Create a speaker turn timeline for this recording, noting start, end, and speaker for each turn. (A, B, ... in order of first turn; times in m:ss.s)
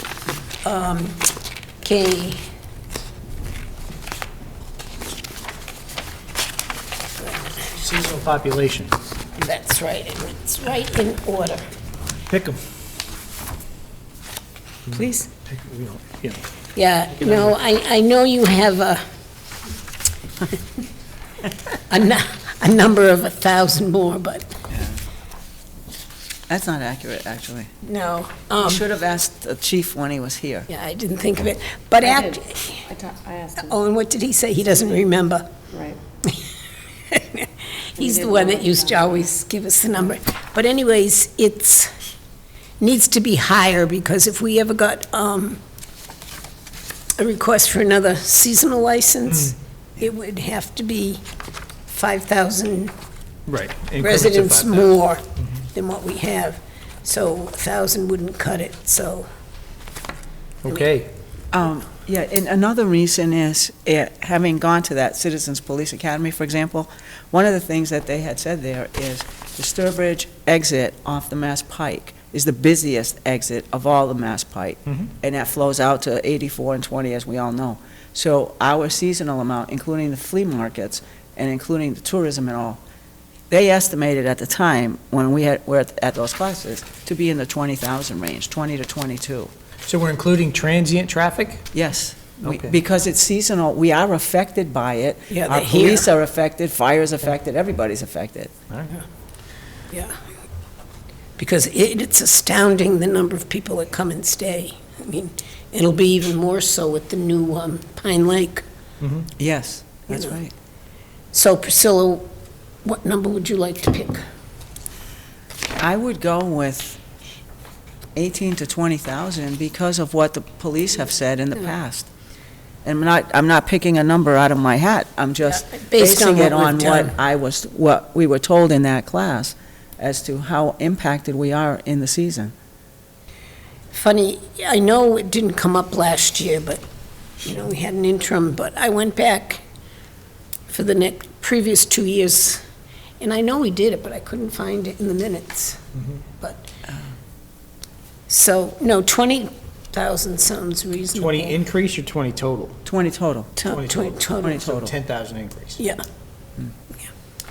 0:00.6-0:01.3 A
0:01.8-0:02.4 A
0:07.8-0:08.9 B
0:09.4-0:11.6 A
0:12.3-0:12.6 B
0:14.9-0:15.3 C
0:14.9-0:16.4 B
0:16.8-0:19.0 A
0:17.2-0:17.5 B
0:21.9-0:24.5 A
0:24.7-0:25.0 C
0:26.5-0:27.7 C
0:27.8-0:28.8 A
0:28.6-0:30.7 C
0:30.7-0:32.9 A
0:32.0-0:33.8 D
0:33.6-0:35.5 A
0:35.7-0:36.0 D
0:37.1-0:41.9 A
0:38.0-0:39.3 D
0:42.8-0:45.6 A
0:47.2-0:51.2 A
0:51.9-0:52.9 A
0:53.5-0:54.9 B
0:54.0-0:59.3 A
1:00.7-1:01.1 B
1:01.5-1:22.8 C
1:23.5-1:29.5 C
1:29.9-1:31.7 B
1:31.7-1:38.5 C
1:32.4-1:32.8 B
1:35.3-1:36.1 A
1:38.7-1:39.0 B
1:41.4-1:48.6 A
1:49.4-1:50.5 C
1:51.3-1:52.3 A
1:52.8-1:54.2 A
1:55.8-1:57.0 C
1:58.2-2:02.1 C
2:02.8-2:12.5 C
2:05.5-2:07.2 A
2:13.9-2:16.8 A
2:17.4-2:19.6 A
2:20.7-2:22.6 A
2:23.2-2:25.8 A
2:26.4-2:26.7 A
2:28.3-2:31.6 A
2:31.2-2:32.8 B
2:32.9-2:33.6 C
2:33.6-2:34.7 A
2:33.7-2:35.8 B
2:34.4-2:34.9 C